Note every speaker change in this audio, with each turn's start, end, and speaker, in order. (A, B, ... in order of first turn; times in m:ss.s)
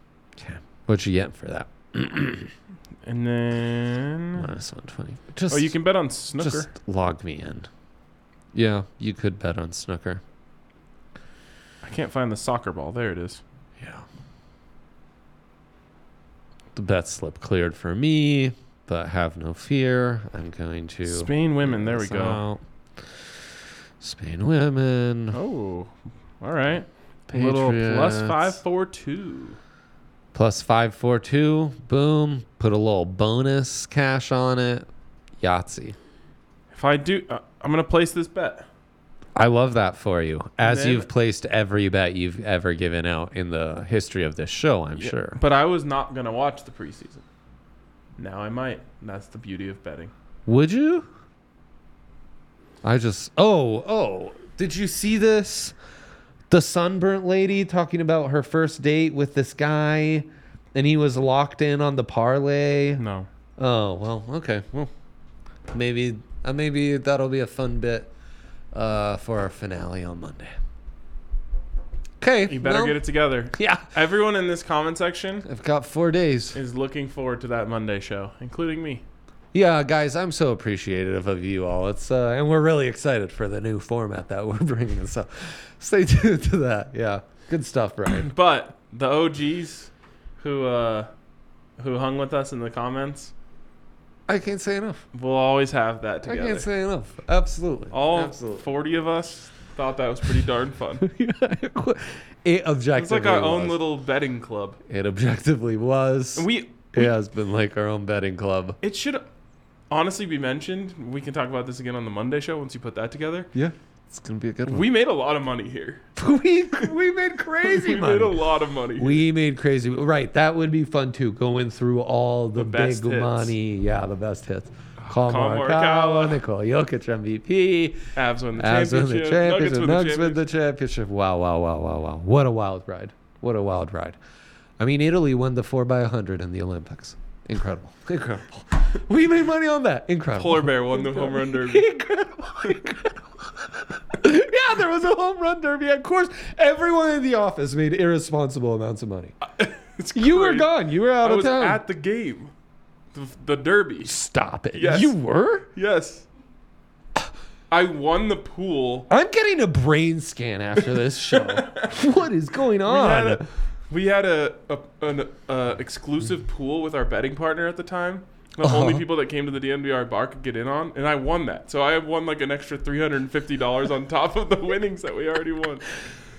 0:00.3-0:02.5 A
0:03.0-0:04.5 B
0:04.4-0:05.8 A
0:05.5-0:06.7 B
0:06.4-0:07.7 A
0:08.5-0:10.2 A
0:11.8-0:13.4 B
0:13.8-0:14.0 A
0:16.7-0:22.6 A
0:21.0-0:22.4 B
0:24.0-0:25.4 A
0:25.3-0:29.6 B
0:27.3-0:28.6 A
0:30.3-0:34.9 A
0:35.4-0:36.0 A
0:36.7-0:38.6 B
0:39.3-0:45.4 A
0:40.6-0:41.1 B
0:45.0-0:47.2 B
0:48.2-0:50.1 B
0:50.5-0:51.1 A
0:52.8-0:55.7 A
0:56.5-1:03.0 A
1:03.0-1:03.3 B
1:03.6-1:04.9 A
1:05.7-1:08.1 A
1:08.7-1:10.5 A
1:12.2-1:13.0 A
1:12.4-1:15.4 B
1:13.5-1:13.9 A
1:15.4-1:16.6 A
1:16.5-1:19.0 B
1:19.5-1:28.3 A
1:28.2-1:31.1 B
1:31.8-1:33.3 B
1:34.3-1:35.0 A
1:35.1-1:36.7 B
1:36.3-1:38.6 A
1:37.9-1:41.0 B
1:41.0-1:43.8 A
1:42.9-1:44.8 B
1:44.9-1:48.8 A
1:46.3-1:47.1 B
1:48.8-1:49.2 B
1:49.9-1:53.5 B
1:53.5-1:54.9 A
1:54.6-1:56.1 B
1:56.2-2:08.0 A
1:57.6-1:59.2 B
2:02.5-2:03.5 B
2:05.0-2:06.4 B
2:08.1-2:10.4 B
2:08.5-2:14.2 A
2:14.8-2:29.3 A
2:20.3-2:21.9 B
2:29.4-2:32.5 B
2:30.1-2:31.8 A
2:33.1-2:34.2 B
2:34.0-2:35.7 A
2:34.7-2:35.1 B
2:35.7-2:36.3 B
2:37.7-2:39.1 B
2:39.1-2:43.5 A
2:40.9-2:42.0 B
2:42.8-2:55.9 B
2:48.6-2:49.1 A